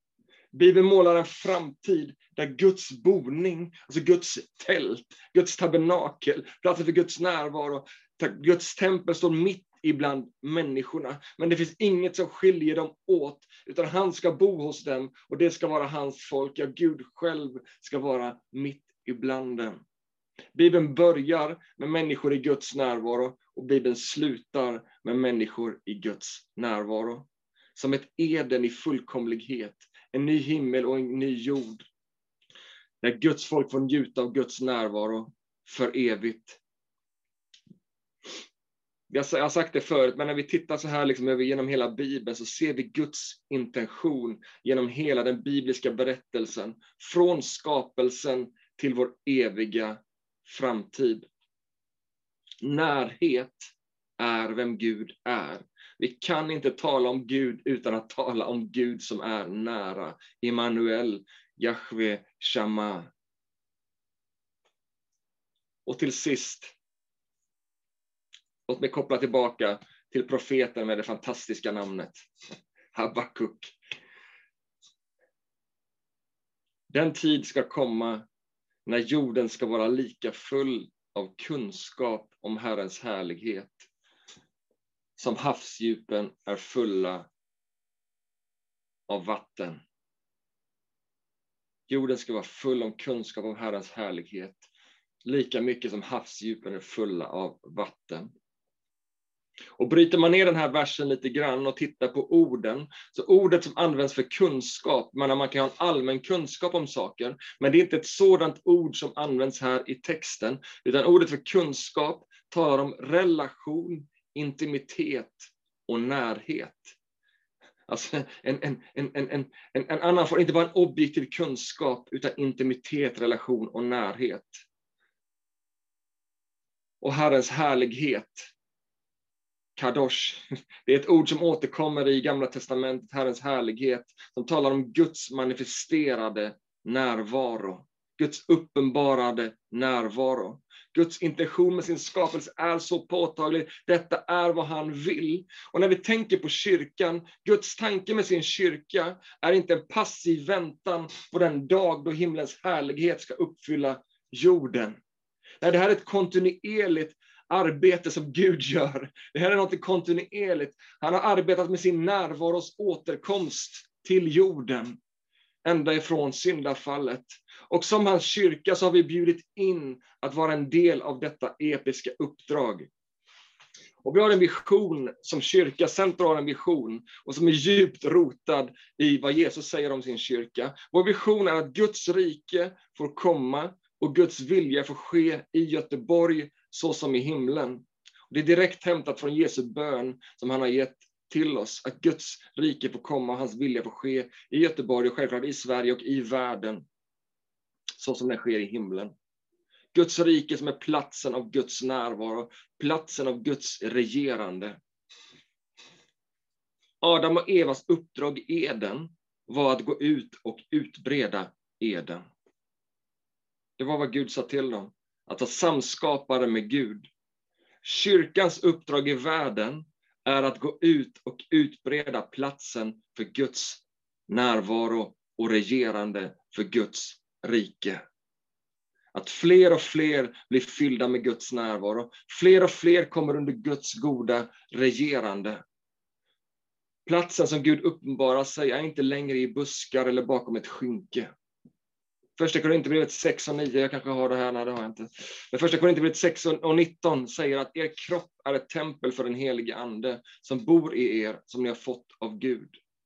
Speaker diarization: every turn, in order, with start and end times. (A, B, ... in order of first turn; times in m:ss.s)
0:00.5-0:19.8 A
0:20.5-0:31.9 A
0:33.0-0:36.6 A
0:39.1-0:51.3 A
0:52.6-1:03.1 A
1:05.8-1:06.7 A
1:08.7-1:12.3 A
1:12.9-1:13.7 A
1:16.9-1:18.2 A
1:18.8-1:23.9 A
1:25.2-1:27.3 A
1:29.1-1:29.8 A
1:31.9-1:34.7 A
1:35.2-1:38.3 A
1:39.8-1:57.0 A
1:57.9-2:04.6 A
2:07.0-2:08.5 A
2:09.8-2:35.0 A
2:35.6-2:45.0 A
2:45.6-2:52.9 A
2:54.0-3:16.8 A
3:17.9-3:19.1 A
3:19.9-3:24.8 A
3:27.0-3:32.3 A
3:33.8-3:37.1 A
3:37.8-3:48.0 A
3:49.1-3:55.6 A
3:57.0-4:01.3 A
4:02.4-4:12.8 A